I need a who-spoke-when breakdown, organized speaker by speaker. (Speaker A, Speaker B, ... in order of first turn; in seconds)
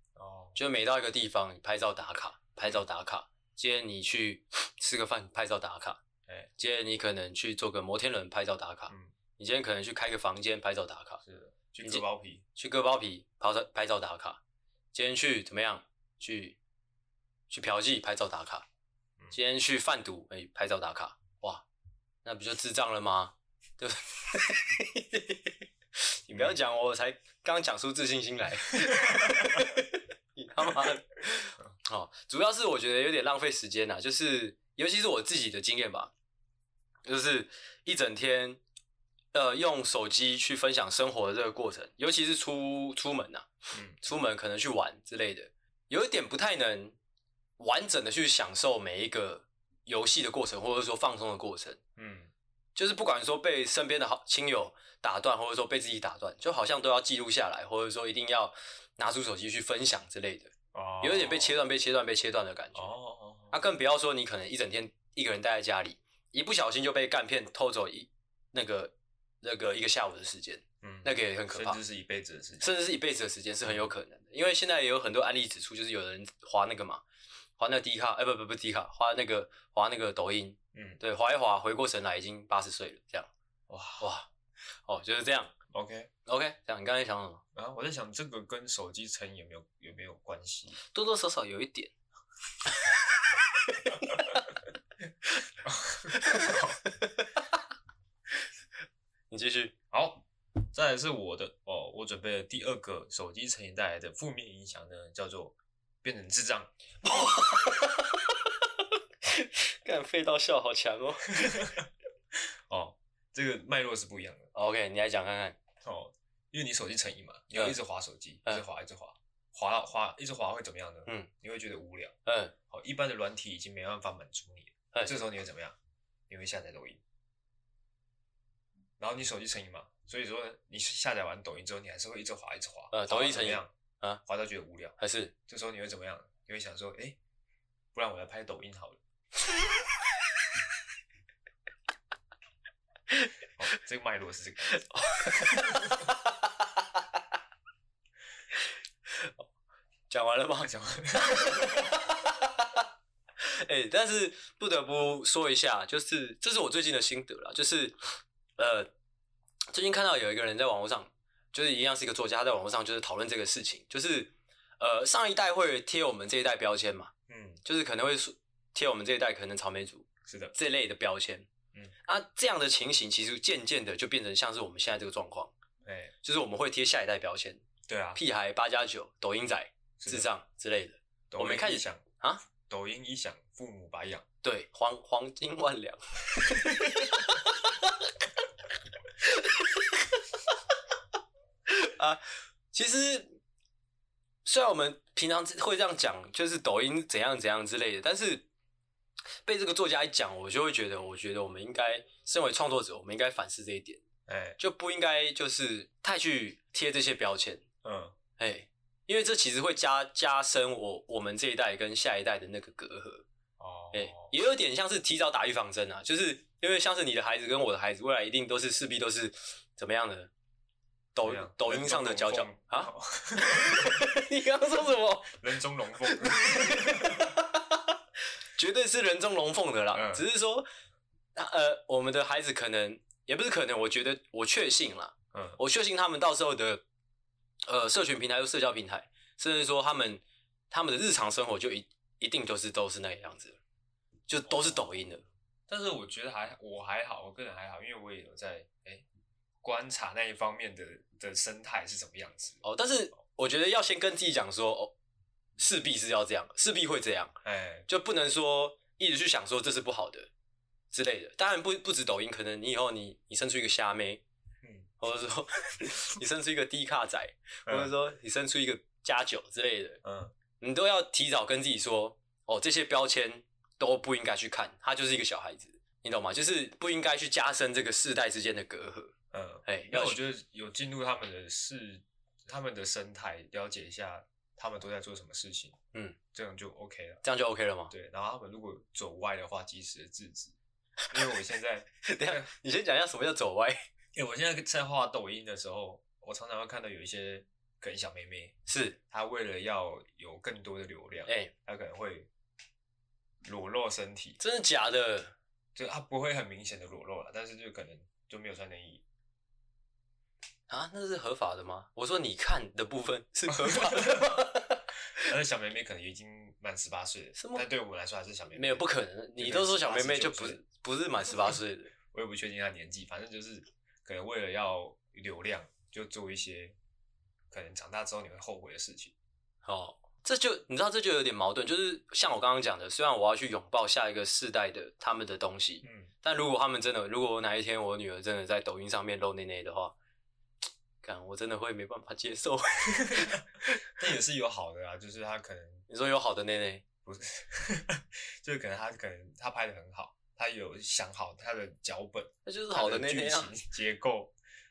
Speaker A: 0.1-0.6, 11.2-12.4, 26.3-26.6, 28.9-29.7, 43.7-44.0, 52.0-52.3, 60.7-61.6, 62.7-63.6, 70.8-72.7, 73.6-73.9, 80.7-81.0, 83.7-84.1, 85.7-86.1, 87.5-90.8, 95.6-96.8, 99.9-106.7, 111.4-114.5, 115.8-122.1, 122.7-125.8, 126.3-127.0, 129.0-133.7, 134.2-135.0, 135.5-137.2, 137.9-139.0, 143.6-145.9, 150.6-151.9, 167.3-167.6, 170.2-170.5, 175.8-176.1, 177.9-178.2, 180.0-180.3, 181.3-182.0, 182.6-184.2, 186.6-187.1, 204.3-204.6, 207.8-208.1, 213.6-214.3, 221.2-224.1, 225.3-227.3, 229.9-230.2, 235.3-235.6, 244.4-244.9, 245.7-249.0, 249.6-252.6, 257.4-257.9, 264.6-264.9, 267.7-267.9, 270.0-270.3, 279.3-285.8, 286.3-287.2, 287.9-290.6, 291.1-292.5, 294.1-298.6, 299.1-302.3, 303.4-304.4, 305.7-309.0, 313.5-314.4, 315.2-318.8, 319.4-320.6, 322.1-326.8, 327.5-329.1, 335.8-336.1, 343.0-345.8, 347.0-354.3
Speaker B: 0.6-6.0, 6.6-11.2, 12.6-14.4, 14.9-16.6, 17.5-18.6, 19.3-21.6, 22.2-25.5, 26.2-36.1, 37.0-38.6, 39.3-43.5, 44.0-47.0, 47.6-51.8, 52.7-62.9, 63.5-71.8, 72.6-77.0, 77.6-83.3, 84.0-84.3, 84.8-85.5, 86.2-87.4, 90.8-91.9, 93.7-94.4, 96.1-97.4, 99.3-99.7, 107.0-108.7, 109.2-111.7, 114.5-115.6, 122.2-122.5, 124.9-125.2, 132.9-134.2, 135.0-135.3, 144.7-147.0, 150.1-152.8, 153.4-158.0, 158.6-158.9, 159.7-167.1, 167.6-171.5, 172.1-175.5, 176.2-177.6, 178.1-182.4, 184.4-187.9, 189.2-190.0, 191.7-193.4, 194.4-198.5, 199.4-204.0, 204.6-207.6, 208.4-213.2, 213.9-220.3, 221.1-225.4, 226.1-227.9, 228.6-230.7, 231.3-236.8, 237.7-243.6, 244.3-245.2, 252.6-254.9, 255.6-257.3, 257.9-260.3, 260.9-264.2, 265.0-270.0, 270.6-279.1, 279.6-280.2, 287.2-287.9, 292.0-293.8, 298.7-299.0, 301.3-301.5, 304.4-305.3, 310.7-314.8, 317.4-317.6, 318.5-321.9, 329.6-339.9, 341.0-343.8, 345.9-346.8, 352.4-353.5